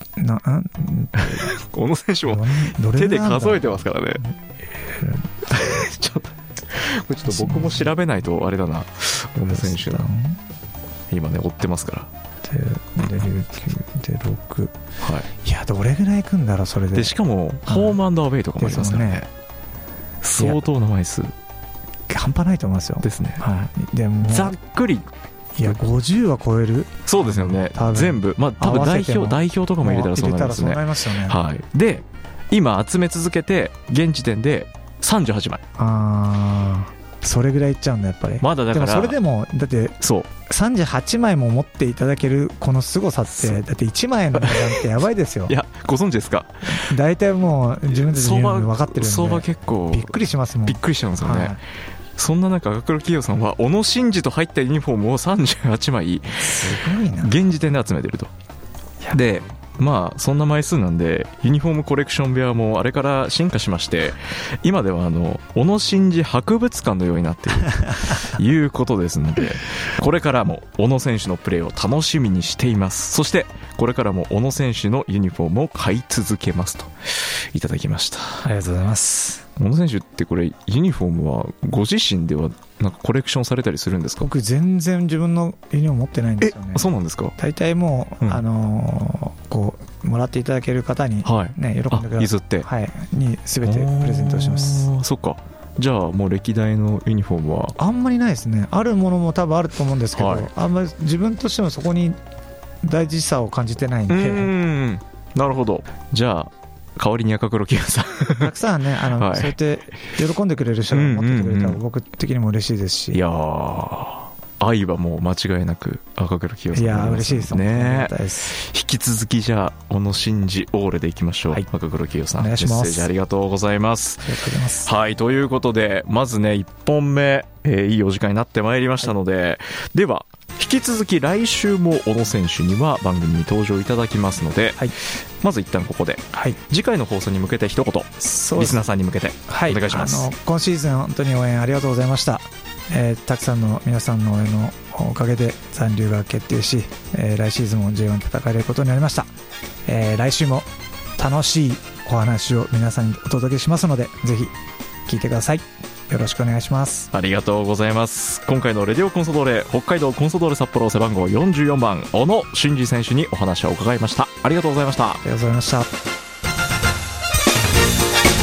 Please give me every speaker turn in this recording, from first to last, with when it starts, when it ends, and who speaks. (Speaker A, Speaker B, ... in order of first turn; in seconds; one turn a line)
Speaker A: 0.2-1.5
Speaker B: 1.2-4.2
Speaker A: 2.3-5.9
Speaker B: 5.5-10.1
Speaker A: 7.3-7.9
Speaker A: 9.5-10.4
Speaker B: 11.1-12.1
Speaker A: 12.5-14.7
Speaker B: 15.0-15.3
Speaker A: 15.4-17.1
Speaker B: 16.9-19.3
Speaker A: 17.7-18.0
Speaker A: 18.6-19.2
Speaker B: 20.2-21.3
Speaker A: 22.1-24.6
Speaker B: 23.0-23.4
Speaker B: 24.2-25.1
Speaker A: 25.6-31.4
Speaker B: 27.1-35.6
Speaker A: 35.8-45.5
Speaker B: 38.4-39.2
Speaker B: 40.0-40.3
Speaker B: 43.4-43.6
Speaker B: 44.3-44.9
Speaker B: 45.5-46.8
Speaker A: 46.7-51.6
Speaker B: 47.9-51.6
Speaker B: 52.2-58.3
Speaker A: 56.4-57.4
Speaker B: 59.1-78.5
Speaker A: 78.4-79.5
Speaker B: 79.6-84.3
Speaker A: 84.2-94.9
Speaker B: 86.4-87.4
Speaker B: 91.2-92.7
Speaker B: 93.6-97.8
Speaker A: 97.8-102.2
Speaker B: 100.1-100.5
Speaker A: 102.8-104.5
Speaker B: 104.1-108.5
Speaker A: 108.4-113.2
Speaker B: 109.1-109.6
Speaker B: 110.9-111.8
Speaker B: 113.1-140.3
Speaker A: 116.7-118.5
Speaker A: 122.4-123.1
Speaker A: 124.2-124.9
Speaker A: 136.3-136.6
Speaker A: 138.2-138.8
Speaker A: 139.5-149.3
Speaker A: 149.9-154.5
Speaker A: 155.1-157.1
Speaker B: 157.1-165.2
Speaker A: 165.2-165.9